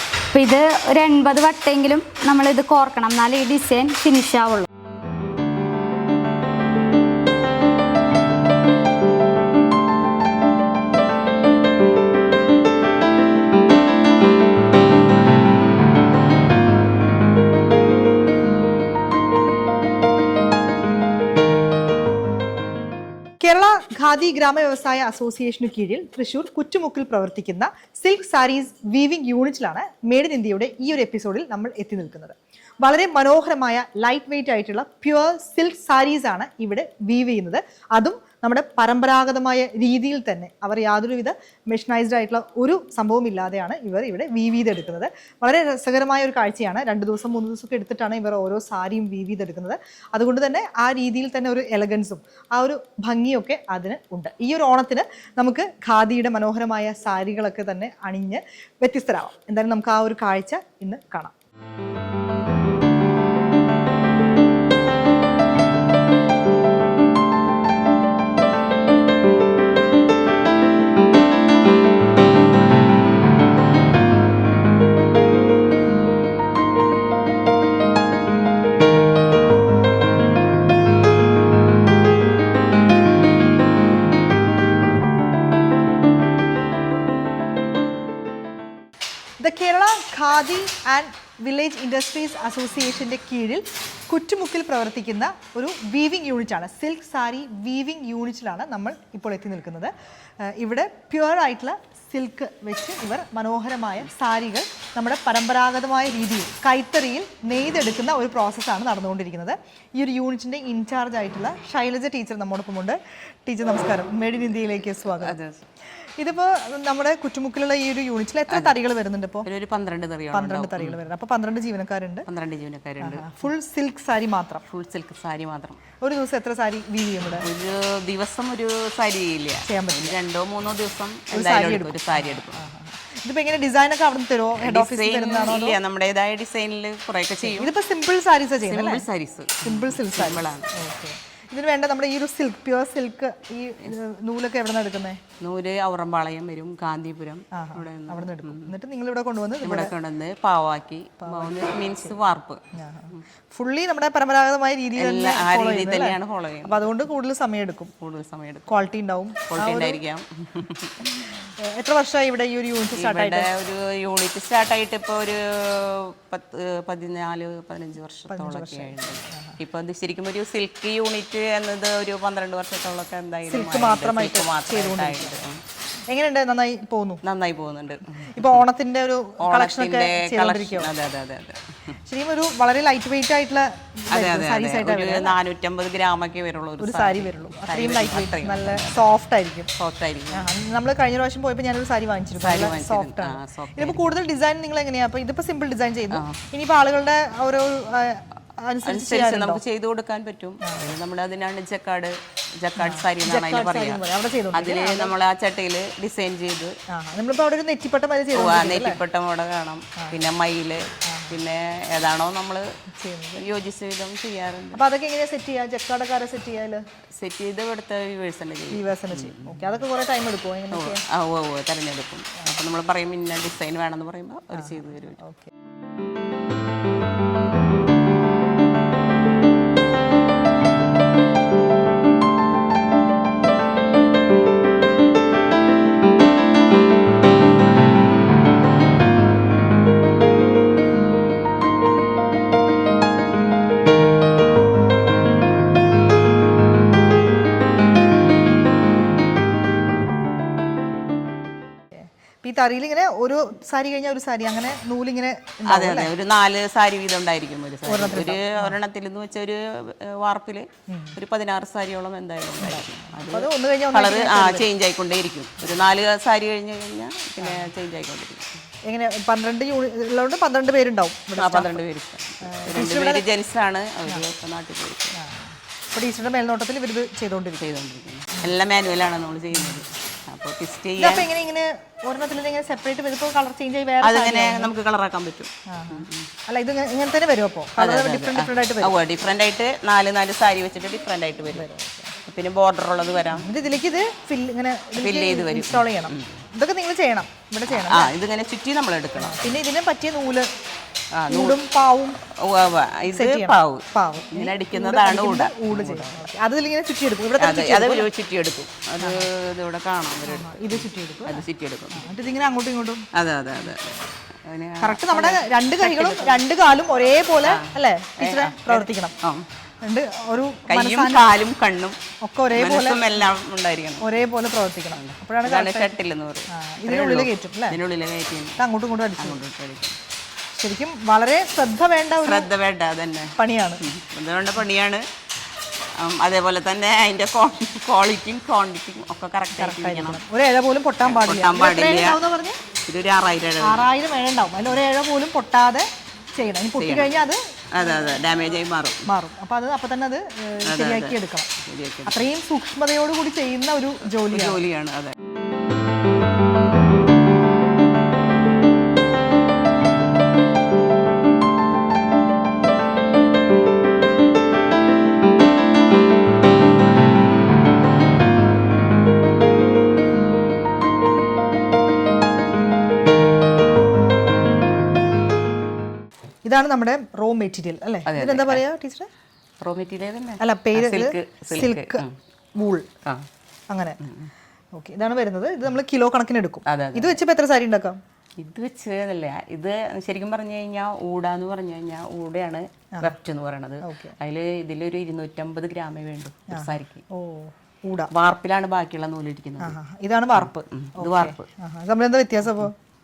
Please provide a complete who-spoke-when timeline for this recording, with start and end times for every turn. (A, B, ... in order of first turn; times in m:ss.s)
0:00.3-0:04.7 A
0:23.4-1:01.3 B
1:29.4-1:39.9 B
1:40.4-1:55.4 B
1:55.1-1:55.6 C
1:56.2-1:59.5 B
1:58.5-1:58.8 C
1:59.4-2:01.0 C
2:00.3-2:02.2 B
2:02.3-2:03.5 C
2:03.0-2:04.6 B
2:04.7-2:05.8 C
2:06.0-2:07.5 B
2:07.4-2:12.6 C
2:09.6-2:10.2 B
2:11.3-2:15.8 B
2:14.6-2:17.7 C
2:17.4-2:19.1 B
2:18.6-2:20.7 C
2:19.6-2:25.2 B
2:25.4-2:28.7 C
2:27.5-2:29.9 B
2:29.6-2:32.6 C
2:31.2-2:32.1 B
2:32.7-2:37.9 B
2:35.0-2:37.0 C
2:38.0-2:38.7 C
2:38.7-2:40.0 B
2:39.5-2:41.4 C
2:41.3-2:43.5 B
2:42.9-2:55.6 C
2:48.3-2:49.6 B
2:53.4-2:55.4 B
2:56.1-2:57.2 B
2:57.2-2:58.6 C
2:58.2-3:00.9 B
2:59.4-3:02.0 C
3:02.0-3:05.4 B
3:04.1-3:09.1 C
3:06.8-3:09.7 B
3:09.8-3:10.5 C
3:10.3-3:19.6 B
3:12.4-3:14.1 C
3:16.1-3:16.4 C
3:18.8-3:26.7 C
3:20.6-3:20.9 B
3:22.8-3:25.1 B
3:26.9-3:29.0 B
3:28.3-3:32.6 C
3:31.1-3:31.4 B
3:32.9-3:33.5 B
3:33.4-3:34.8 C
3:34.7-3:36.8 B
3:37.2-3:39.8 C
3:38.7-3:41.0 B
3:40.7-3:45.2 C
3:44.5-3:45.5 B
4:11.9-4:16.1 B
4:15.7-4:28.4 C
4:17.8-4:18.8 B
4:20.9-4:21.2 B
4:22.6-4:24.7 B
4:27.4-4:27.7 B
4:28.9-4:31.8 B
4:31.4-4:35.2 C
4:32.4-4:33.2 B
4:35.1-4:37.6 B
4:37.6-4:41.3 C
4:39.5-4:39.8 B
4:41.0-4:44.7 B
4:44.0-4:46.3 C
4:45.7-4:49.0 B
4:47.8-4:51.6 C
4:51.5-4:52.1 B
4:52.2-4:53.5 C
4:53.3-4:58.1 B
4:55.0-4:56.4 C
4:57.7-4:59.6 C
4:59.2-5:00.5 B
5:01.2-5:01.6 C
5:01.3-5:02.2 B
5:02.4-5:06.3 C
5:03.1-5:08.1 B
5:07.4-5:12.1 C
5:09.0-5:09.3 B
5:10.2-5:13.0 B
5:13.1-5:16.4 C
5:14.8-5:19.2 B
5:17.4-5:19.4 C
5:19.8-5:21.4 B
5:20.7-5:22.0 C
5:22.2-5:23.2 B
5:22.5-5:24.2 C
5:24.0-5:26.0 B
5:24.9-5:28.6 C
5:26.5-5:27.8 B
5:28.6-5:29.4 B
5:29.2-5:30.0 C
5:30.5-5:32.5 B
5:32.2-5:35.0 C
5:33.4-5:33.8 B
5:36.0-5:40.2 C
5:39.6-5:42.6 B
5:41.0-5:42.2 C
5:42.9-5:43.8 C
5:43.6-5:48.2 B
5:46.8-5:47.1 C
5:47.7-5:49.1 C
5:49.0-5:51.5 B
5:50.7-5:52.3 C
5:52.1-5:54.6 B
5:54.2-5:55.2 C
6:16.4-6:19.1 B
6:18.1-6:18.6 C
6:19.6-6:22.1 C
6:20.4-6:22.0 B
6:22.6-6:22.9 B
6:23.7-6:24.0 B
6:24.0-6:24.3 C
6:24.7-6:28.0 B
6:26.7-6:27.2 C
6:28.4-6:37.0 C
6:33.8-6:34.2 B
6:36.5-6:38.1 B
6:38.1-6:39.8 C
6:39.6-6:42.7 B
6:40.4-6:41.5 C